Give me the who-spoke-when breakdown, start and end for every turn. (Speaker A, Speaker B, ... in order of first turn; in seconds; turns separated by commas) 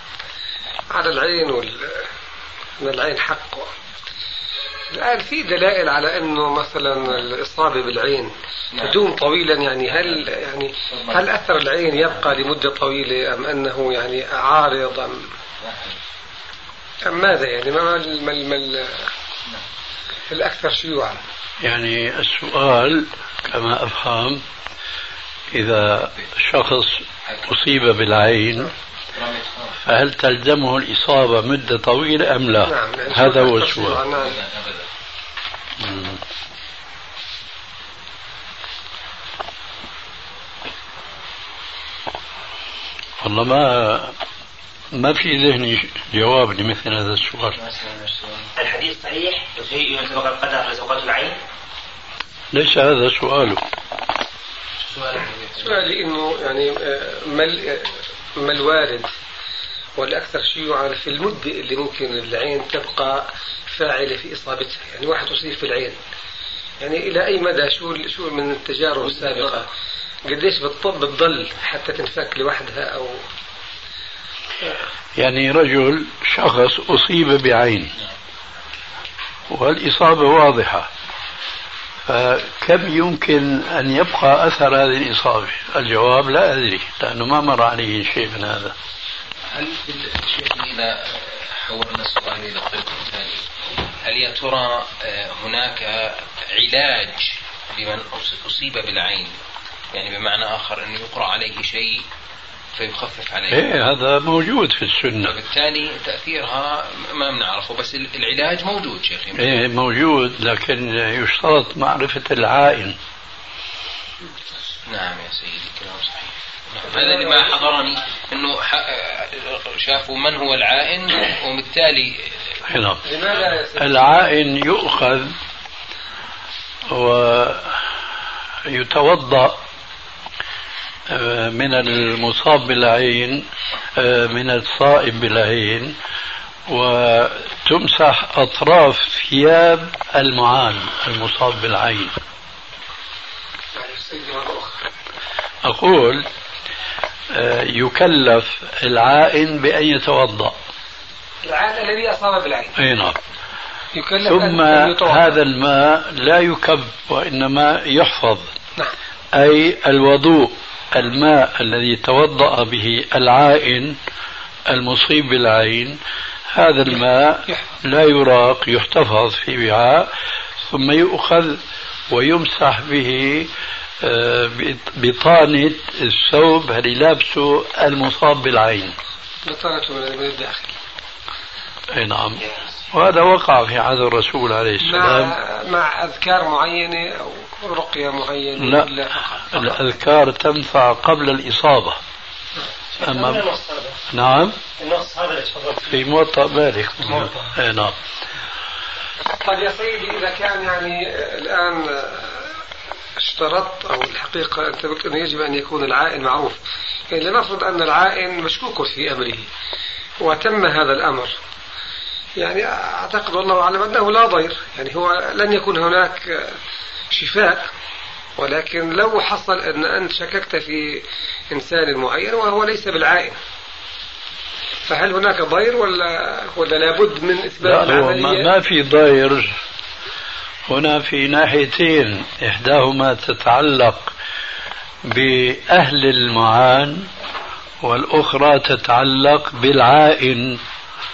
Speaker A: 0.9-2.0, Speaker A: 2.8-3.7, Speaker A: 4.9-15.2, Speaker B: 8.7-9.1, Speaker B: 9.9-10.2, Speaker B: 10.8-12.3, Speaker B: 15.6-16.0, Speaker A: 17.1-19.1, Speaker A: 20.3-21.2, Speaker C: 21.6-24.4, Speaker C: 25.5-28.7, Speaker B: 29.1-29.8, Speaker C: 29.8-34.0, Speaker A: 32.6-34.4, Speaker B: 34.1-34.9, Speaker C: 35.8-36.2, Speaker C: 43.2-44.1, Speaker C: 44.9-47.5, Speaker B: 47.5-48.5, Speaker D: 48.6-51.4, Speaker C: 52.5-53.6, Speaker B: 54.8-56.0, Speaker A: 55.6-59.1, Speaker A: 60.0-66.0, Speaker A: 66.8-69.7, Speaker E: 69.0-69.3, Speaker A: 70.2-73.2, Speaker C: 75.2-77.9, Speaker C: 79.5-80.9, Speaker C: 82.0-88.8, Speaker B: 89.5-93.5, Speaker B: 94.0-99.3, Speaker B: 99.9-102.0, Speaker B: 102.8-103.7, Speaker C: 103.5-105.3, Speaker B: 105.2-109.5, Speaker C: 109.3-113.0, Speaker B: 114.8-122.3, Speaker A: 116.9-117.5, Speaker C: 122.7-123.0, Speaker A: 123.0-124.2, Speaker C: 123.8-125.3, Speaker C: 126.9-127.8, Speaker C: 128.7-129.6, Speaker C: 131.1-136.0, Speaker C: 136.7-142.1, Speaker A: 143.7-144.7, Speaker C: 145.6-146.2, Speaker C: 147.3-150.6, Speaker A: 151.4-152.7, Speaker C: 152.8-153.2, Speaker A: 153.9-155.4, Speaker C: 154.2-158.5, Speaker C: 159.3-164.0, Speaker C: 164.7-166.0, Speaker C: 166.5-170.1, Speaker C: 170.7-173.5, Speaker C: 174.0-178.9, Speaker A: 179.4-180.7, Speaker C: 181.9-185.3, Speaker A: 184.8-189.8, Speaker C: 188.6-188.9, Speaker C: 189.5-192.0, Speaker C: 193.0-193.5, Speaker E: 193.0-193.9, Speaker C: 194.1-194.6, Speaker E: 194.8-195.9, Speaker C: 195.8-198.0, Speaker A: 199.4-202.5, Speaker A: 203.2-206.6, Speaker A: 207.1-209.5, Speaker A: 210.2-211.3, Speaker A: 212.4-216.6, Speaker A: 217.1-217.7, Speaker A: 218.4-223.4, Speaker A: 224.9-228.5, Speaker C: 227.6-229.5, Speaker C: 230.7-234.1, Speaker C: 235.1-237.1, Speaker C: 237.8-240.6